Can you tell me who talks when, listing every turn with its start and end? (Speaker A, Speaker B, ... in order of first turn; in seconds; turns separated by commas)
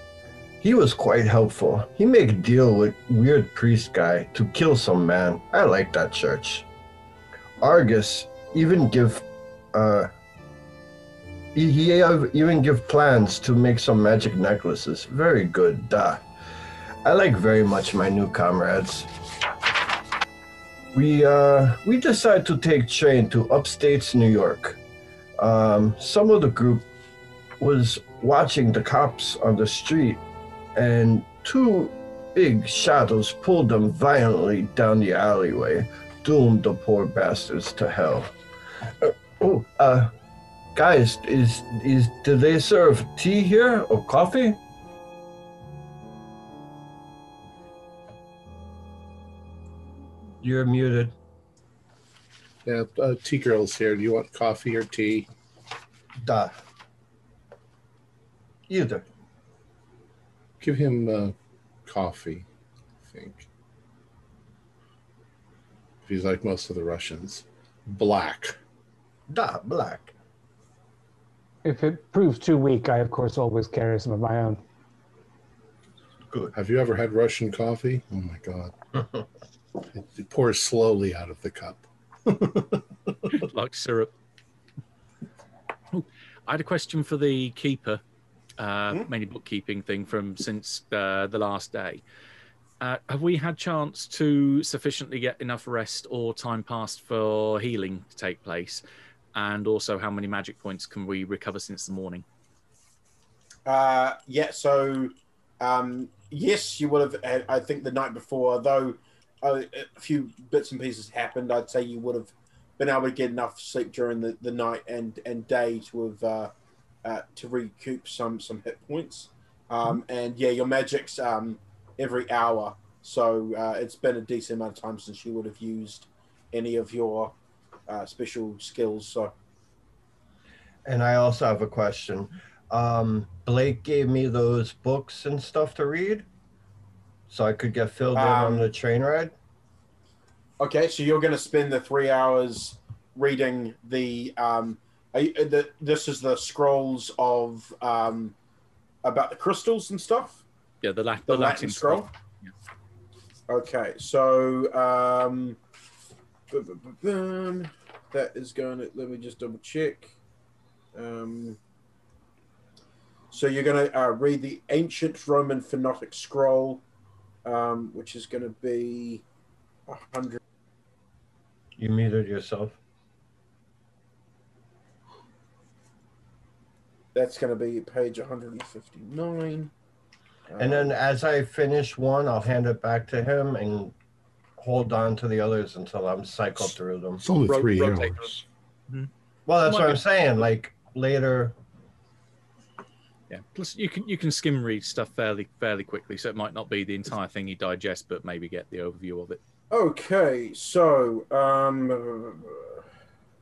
Speaker A: 0.6-6.7, Speaker A: 7.6-10.1, Speaker A: 11.5-16.2, Speaker A: 17.1-19.1, Speaker A: 20.9-24.8, Speaker A: 25.4-26.9, Speaker A: 27.6-30.2, Speaker A: 30.8-38.3, Speaker A: 39.0-40.1, Speaker A: 40.8-44.6, Speaker A: 50.4-51.1, Speaker B: 52.7-55.3, Speaker A: 56.2-56.6, Speaker A: 58.7-59.0, Speaker B: 60.6-61.4, Speaker B: 61.9-62.5, Speaker B: 63.1-63.5, Speaker B: 66.0-68.6, Speaker A: 69.3-70.1, Speaker C: 71.6-74.6, Speaker B: 76.5-78.7, Speaker B: 79.9-83.3, Speaker D: 83.3-84.1, Speaker D: 85.9-88.0, Speaker D: 88.6-92.0, Speaker D: 92.8-98.8, Speaker D: 99.3-102.2, Speaker E: 103.7-116.5, Speaker E: 117.0-127.3, Speaker E: 127.9-129.3, Speaker A: 130.9-136.3, Speaker A: 137.3-139.3, Speaker E: 138.2-138.7, Speaker E: 140.6-148.3, Speaker E: 149.0-150.4, Speaker D: 150.8-152.1, Speaker E: 151.3-152.1, Speaker E: 153.5-155.6, Speaker E: 156.5-160.1, Speaker E: 160.9-161.6, Speaker E: 163.3-166.8, Speaker E: 167.4-169.2, Speaker E: 169.9-170.4, Speaker A: 171.8-172.8, Speaker E: 177.1-179.7, Speaker E: 180.5-180.9, Speaker A: 180.6-183.9, Speaker A: 184.6-187.2, Speaker B: 187.2-188.4, Speaker D: 187.5-188.3, Speaker A: 189.5-191.6, Speaker D: 189.7-190.0, Speaker D: 193.3-199.4, Speaker E: 199.7-202.8